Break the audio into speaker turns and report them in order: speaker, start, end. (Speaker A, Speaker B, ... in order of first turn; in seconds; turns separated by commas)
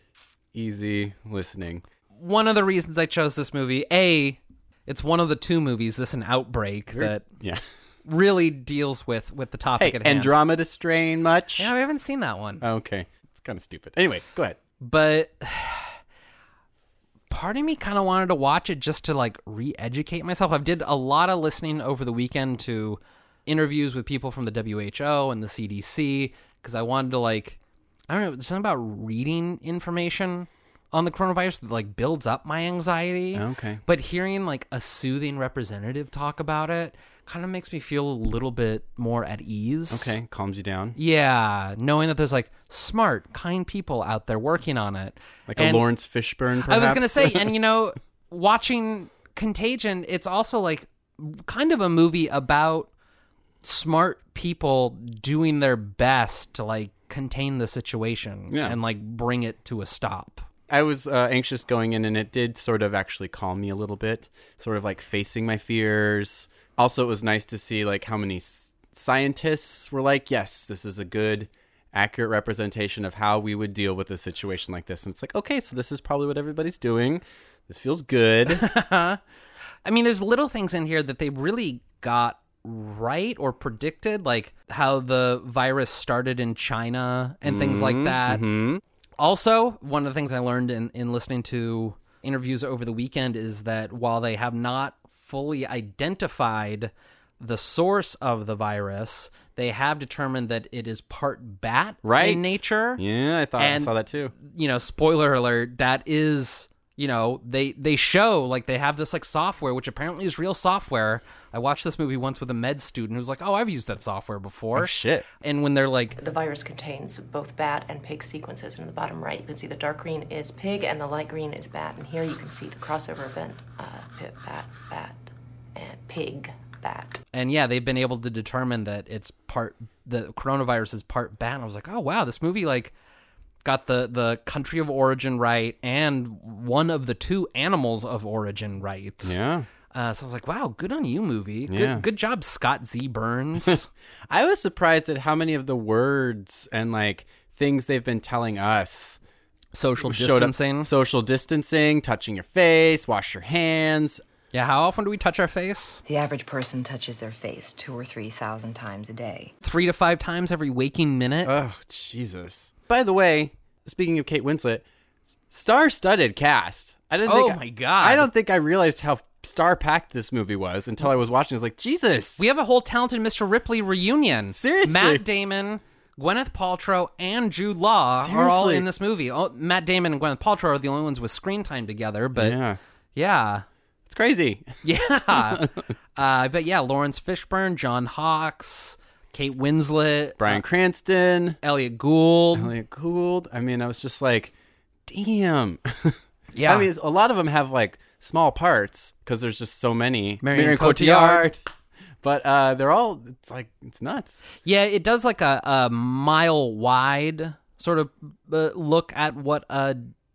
Speaker A: 0.5-1.8, Speaker B: 2.1-7.2, Speaker A: 6.9-7.6, Speaker B: 8.1-10.4, Speaker A: 9.8-11.7, Speaker B: 11.6-12.6, Speaker A: 12.6-14.6, Speaker B: 14.8-16.0, Speaker B: 17.3-27.6, Speaker B: 28.1-40.2, Speaker A: 33.3-33.8, Speaker A: 39.9-41.0, Speaker B: 41.0-45.9, Speaker A: 45.5-47.5, Speaker B: 46.6-52.9, Speaker B: 53.6-60.5, Speaker A: 58.5-58.8, Speaker A: 60.7-78.7, Speaker B: 78.5-79.2, Speaker B: 79.8-88.5, Speaker A: 87.5-88.8, Speaker B: 89.2-103.0, Speaker A: 102.0-104.3, Speaker B: 103.6-116.2, Speaker A: 114.8-115.3, Speaker C: 116.2-127.2, Speaker B: 127.3-132.9, Speaker B: 133.6-139.4, Speaker A: 139.2-139.7, Speaker B: 139.9-143.9, Speaker A: 141.7-142.1, Speaker A: 144.3-149.2, Speaker B: 149.7-150.9, Speaker A: 150.0-154.2, Speaker B: 154.5-156.0, Speaker D: 156.1-159.5, Speaker B: 159.6-161.5, Speaker A: 161.4-164.8, Speaker A: 165.5-172.4, Speaker B: 167.3-168.3, Speaker B: 172.4-182.6, Speaker A: 174.5-175.2, Speaker A: 178.1-178.9, Speaker A: 182.4-182.8, Speaker B: 183.2-183.7, Speaker A: 184.1-184.8, Speaker B: 184.8-190.6, Speaker A: 185.3-185.8, Speaker A: 190.4-191.6, Speaker B: 191.6-192.7, Speaker A: 192.6-194.5, Speaker A: 195.1-201.6, Speaker B: 196.5-196.9, Speaker B: 200.4-201.5, Speaker A: 202.2-204.4, Speaker B: 204.7-210.1